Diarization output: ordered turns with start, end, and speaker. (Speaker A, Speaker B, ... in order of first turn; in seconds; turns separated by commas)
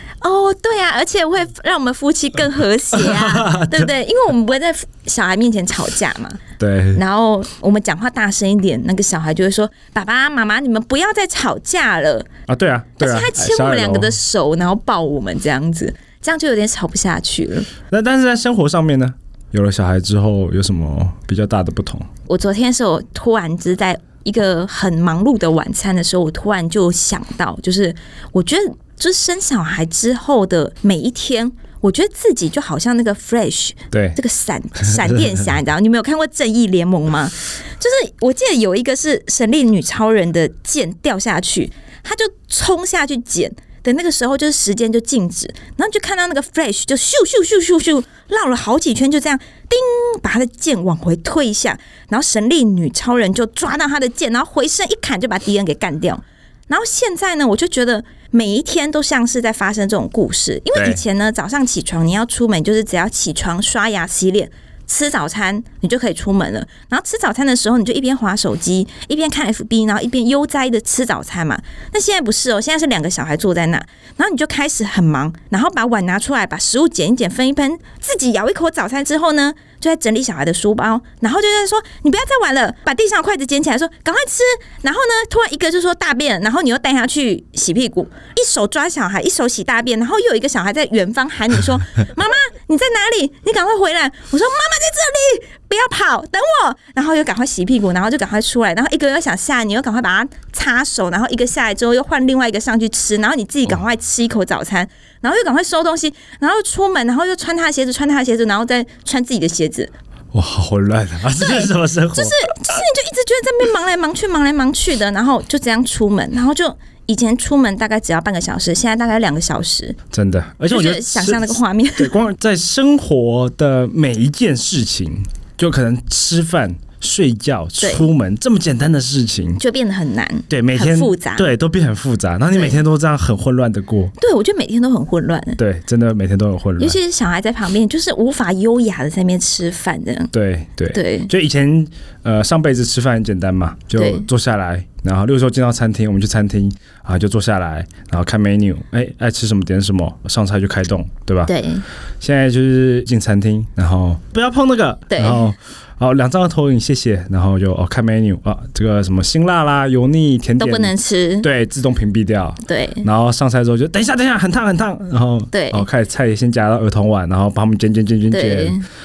Speaker A: 0.2-6.4, Speaker B: 2.9-3.9, Speaker B: 6.6-7.0, Speaker A: 6.9-12.3, Speaker B: 12.5-14.1, Speaker A: 13.0-17.7, Speaker B: 17.9-22.1, Speaker A: 22.3-109.9, Speaker B: 33.9-34.2, Speaker B: 34.8-35.4, Speaker B: 60.8-61.0, Speaker B: 110.3-112.4, Speaker A: 111.4-120.0, Speaker B: 120.1-129.6, Speaker A: 120.7-122.1, Speaker A: 127.8-128.1, Speaker A: 129.6-131.5, Speaker B: 130.5-134.1, Speaker A: 134.2-135.6, Speaker B: 135.6-137.0, Speaker A: 136.8-140.3, Speaker B: 140.3-151.5, Speaker A: 140.9-141.3, Speaker A: 144.0-144.3, Speaker A: 151.5-151.8, Speaker B: 152.2-168.8, Speaker A: 155.1-155.5, Speaker A: 160.6-161.5, Speaker A: 162.7-163.1, Speaker A: 165.5-165.8, Speaker A: 168.3-168.8